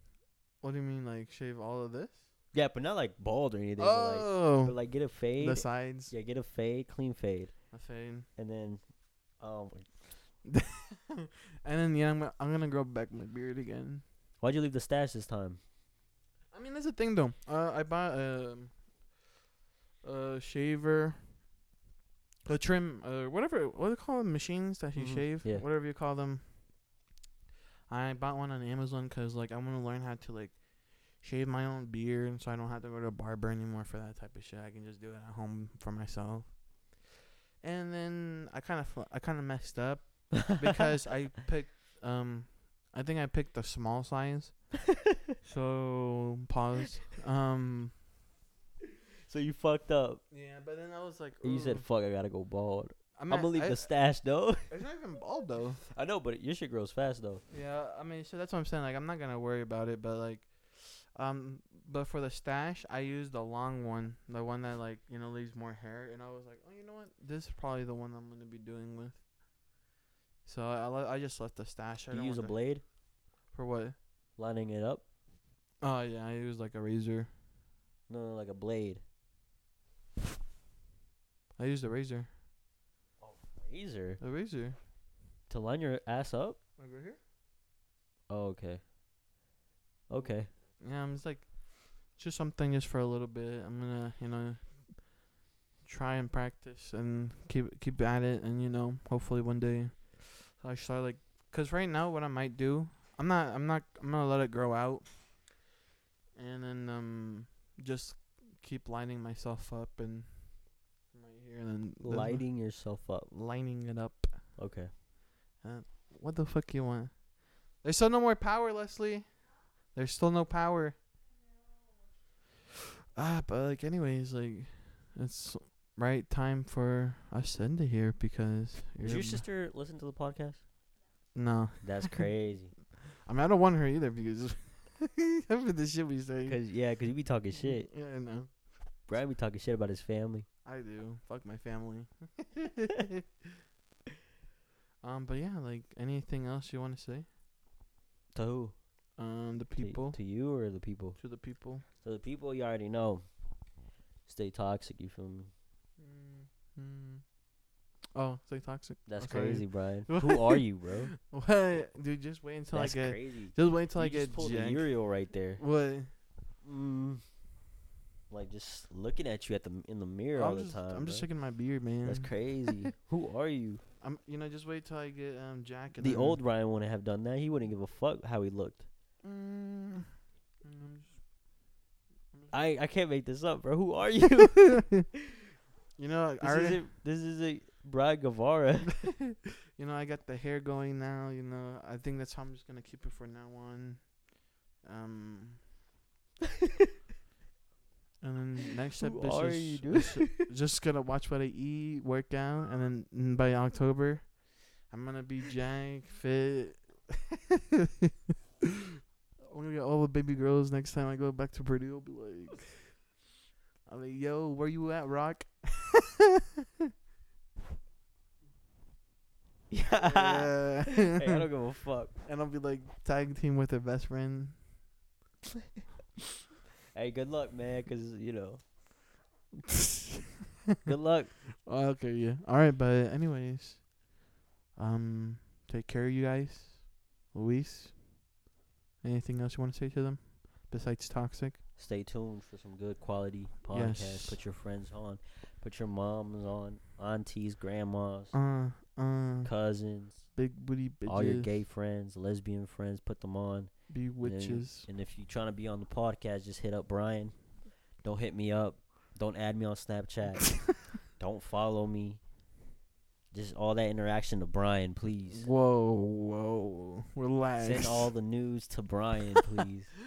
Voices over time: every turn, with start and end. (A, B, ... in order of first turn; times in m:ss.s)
0:00.6-0:02.2 A
0:02.5-0:07.7 B
0:03.8-0:06.1 A
0:07.7-0:08.3 A
0:08.4-0:10.2 B
0:10.4-0:14.0 A
0:14.4-0:15.6 B
0:16.5-0:18.8 A
0:20.0-0:21.4 A
0:22.5-0:26.9 A
0:25.0-0:25.6 B
0:27.9-0:37.0 A
0:37.6-0:44.8 A
0:40.3-0:40.6 B
0:45.4-0:48.0 A
0:49.3-0:50.2 B
0:50.3-0:51.8 A
0:51.4-0:54.7 B
0:53.2-0:53.9 A
0:54.7-0:55.8 A
0:55.9-0:57.4 B
0:57.5-1:09.2 A
1:10.4-1:12.6 A
1:12.1-1:12.8 B
1:13.5-1:14.0 A
1:14.4-1:15.0 B
1:15.8-1:17.3 A
1:18.1-1:19.0 B
1:21.6-1:22.3 A
1:23.2-1:24.2 B
1:24.2-1:24.8 A
1:25.5-1:26.6 B
1:26.8-1:27.2 A
1:28.3-1:28.8 B
1:30.1-1:30.5 B
1:30.8-1:35.2 A
1:35.8-1:45.5 A
1:46.3-1:52.5 A
1:52.0-1:53.3 B
1:53.3-1:54.6 A
1:54.6-1:54.9 B
1:55.6-2:01.0 A
2:03.1-2:09.4 A
2:09.0-2:10.6 B
2:11.3-2:12.3 A
2:11.8-2:12.7 B
2:13.2-2:16.6 A
2:16.4-2:17.9 B
2:17.6-2:18.5 A
2:19.1-2:20.4 B
2:20.6-2:23.2 A
2:25.0-2:27.3 A
2:28.3-2:28.8 B
2:29.2-2:30.2 A
2:29.8-2:31.2 B
2:31.2-2:31.8 A
2:32.0-2:33.3 B
2:34.2-2:35.5 B
2:36.0-2:37.2 A
2:38.1-2:40.6 A
2:39.0-2:41.1 B
2:41.1-2:45.0 A
2:42.7-2:45.6 B
2:45.6-2:46.1 A
2:46.6-2:47.2 B
2:48.3-2:51.3 B
2:50.3-2:52.9 A
2:52.0-2:53.8 B
2:54.0-2:56.4 A
2:56.0-2:58.9 B
2:59.2-3:00.1 A
3:00.6-3:01.2 A
3:02.5-3:05.0 B
3:06.0-3:06.8 A
3:06.4-3:09.1 B
3:09.8-3:14.3 A
3:14.8-3:15.7 A
3:18.2-3:27.9 A
3:19.0-3:20.5 B
3:29.4-3:33.0 A
3:33.8-3:36.3 A
3:39.7-3:42.2 B
3:40.0-3:41.4 A
3:42.2-3:44.6 A
3:46.9-3:48.6 B
3:49.7-3:50.1 A
3:50.8-3:51.4 B
3:51.6-3:54.0 A
3:54.7-3:58.2 A
3:59.0-4:01.6 A
4:01.8-4:08.4 B
4:03.7-4:04.4 A
4:08.3-4:09.5 A
4:09.4-4:10.4 B
4:10.2-4:11.5 A
4:11.1-4:22.2 B
4:13.9-4:14.9 A
4:23.3-4:25.5 B
4:25.3-4:28.1 A
4:27.6-4:29.9 B